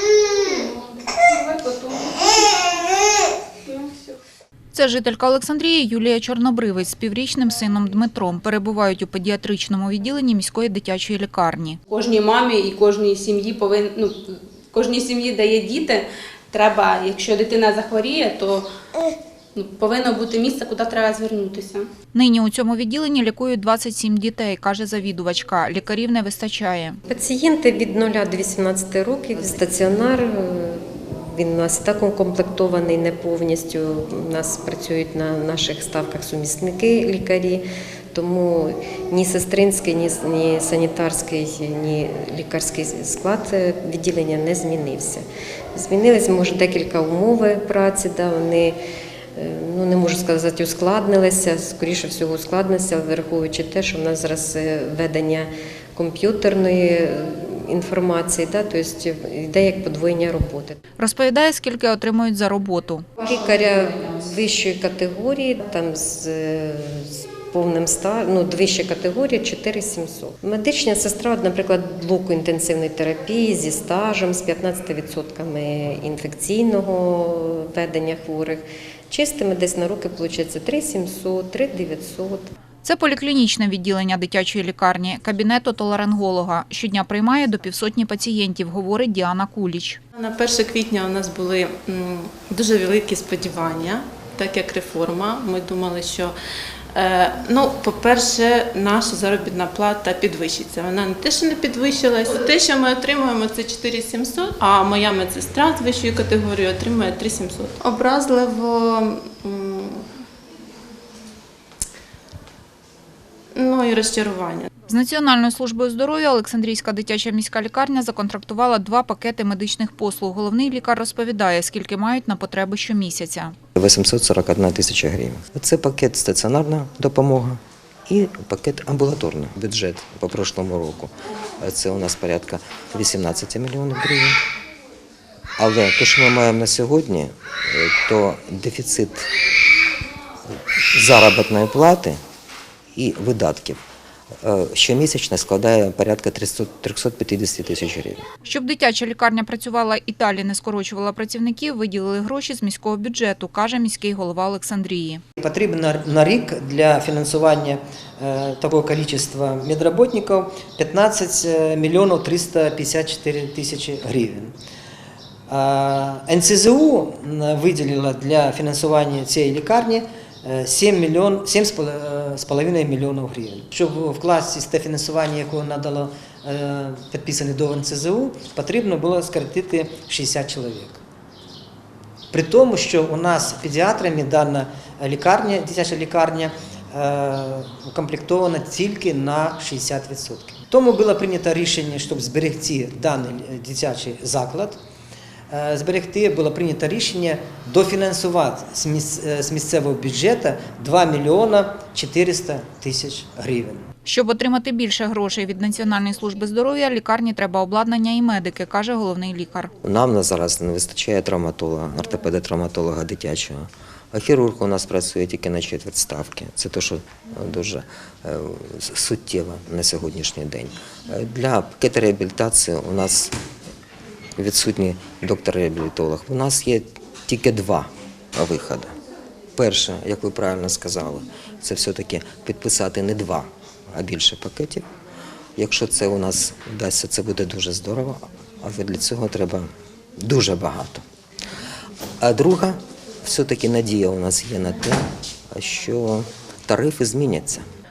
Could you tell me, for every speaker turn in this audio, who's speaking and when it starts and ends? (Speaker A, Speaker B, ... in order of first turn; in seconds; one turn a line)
Speaker A: 0.3-2.6
Speaker A: 3.7-4.2
Speaker B: 4.7-11.8
Speaker A: 11.9-18.7
Speaker A: 19.6-21.9
Speaker B: 22.1-27.0
Speaker C: 27.1-48.8
Speaker C: 49.4-60.8
Speaker B: 61.0-63.1
Speaker C: 63.2-82.5
Speaker B: 82.8-90.0
Speaker D: 90.2-96.3
Speaker D: 96.9-110.0
Speaker D: 113.5-114.7
Speaker B: 114.9-123.5
Speaker E: 123.8-134.4
Speaker E: 135.6-139.3
Speaker E: 140.9-142.2
Speaker E: 143.0-143.8
Speaker E: 144.4-148.2
Speaker B: 148.5-155.2
Speaker F: 155.4-164.5
Speaker F: 165.5-181.0
Speaker F: 182.3-194.8
Speaker F: 195.5-203.8
Speaker B: 204.1-209.7
Speaker E: 209.8-223.3
Speaker E: 224.4-228.9
Speaker E: 229.6-234.8
Speaker E: 235.6-239.7
Speaker E: 240.2-241.0
Speaker E: 242.2-247.7